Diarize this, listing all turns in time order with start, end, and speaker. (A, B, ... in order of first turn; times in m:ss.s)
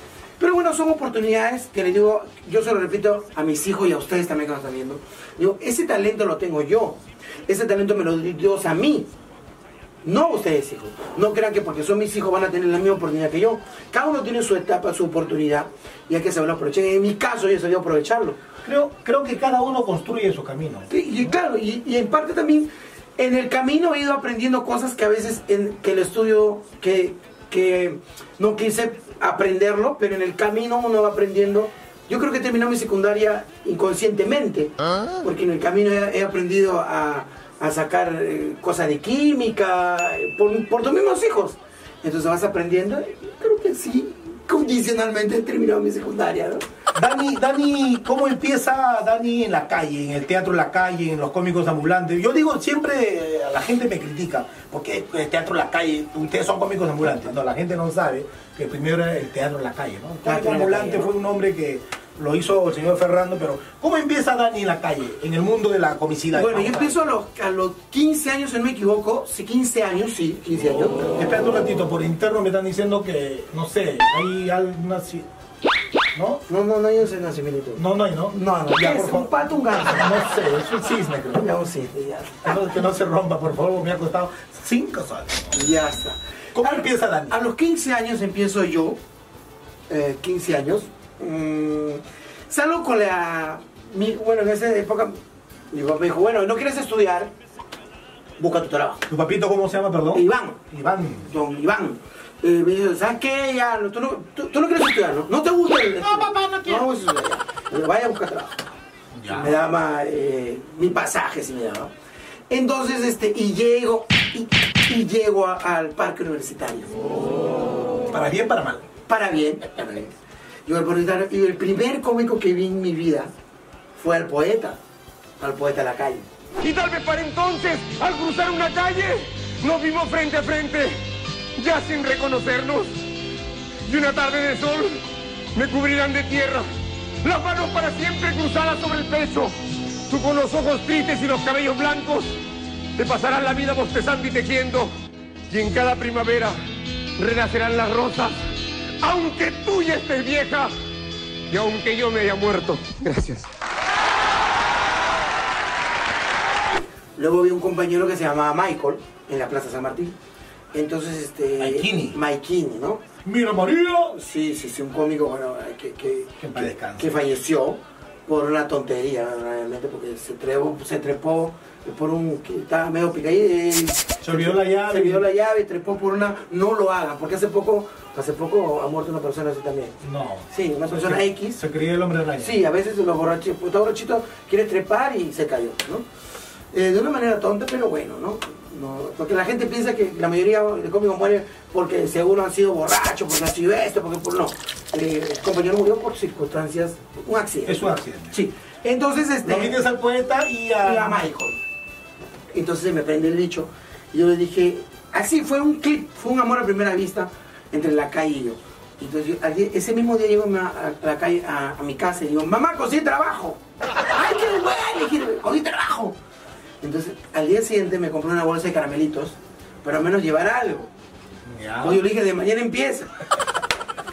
0:00.4-0:09.1 A
0:10.0-0:18.4 A
0:18.6-0:20.9 B
0:20.9-0:46.6 A
0:47.0-1:07.0 B
1:00.2-1:01.1 A
1:06.3-1:11.1 A
1:11.1-1:15.3 B
1:16.2-1:16.4 B
1:16.5-1:20.1 A
1:17.8-1:21.5 B
1:21.3-1:22.6 A
1:22.4-1:25.6 B
1:25.5-1:29.0 A
1:26.6-1:27.4 B
1:29.9-1:35.2 A
1:35.7-1:37.3 A
1:38.4-1:39.1 A
1:39.1-1:41.3 B
1:40.1-1:40.6 A
1:41.2-1:48.7 A
1:46.0-1:46.9 B
1:49.1-1:49.6 B
1:49.3-1:51.9 A
1:52.5-1:57.0 A
1:58.1-1:58.9 B
1:59.1-2:00.1 A
2:00.7-2:03.3 A
2:04.0-2:04.8 A
2:05.4-2:06.3 A
2:06.6-2:11.0 C
2:11.6-2:13.0 C
2:13.8-2:15.0 C
2:15.5-2:16.7 C
2:17.2-2:22.4 C
2:23.0-2:25.0 C
2:25.5-2:26.6 C
2:27.2-2:28.4 C
2:29.0-2:30.7 C
2:31.5-2:33.5 C
2:37.2-2:40.2 A
2:40.7-2:43.0 A
2:41.6-2:42.2 B
2:43.2-2:44.2 B
2:44.2-3:00.0 A
2:46.4-2:47.3 B
2:54.2-2:55.3 B
3:00.0-3:02.7 B
3:00.5-3:01.6 A
3:02.4-3:06.0 A
3:06.7-3:19.8 A
3:17.7-3:18.4 B
3:19.4-3:21.3 B
3:20.8-3:21.6 A
3:22.5-3:36.2 A
3:36.8-3:40.9 A
3:41.5-3:42.0 B
3:41.8-3:43.1 A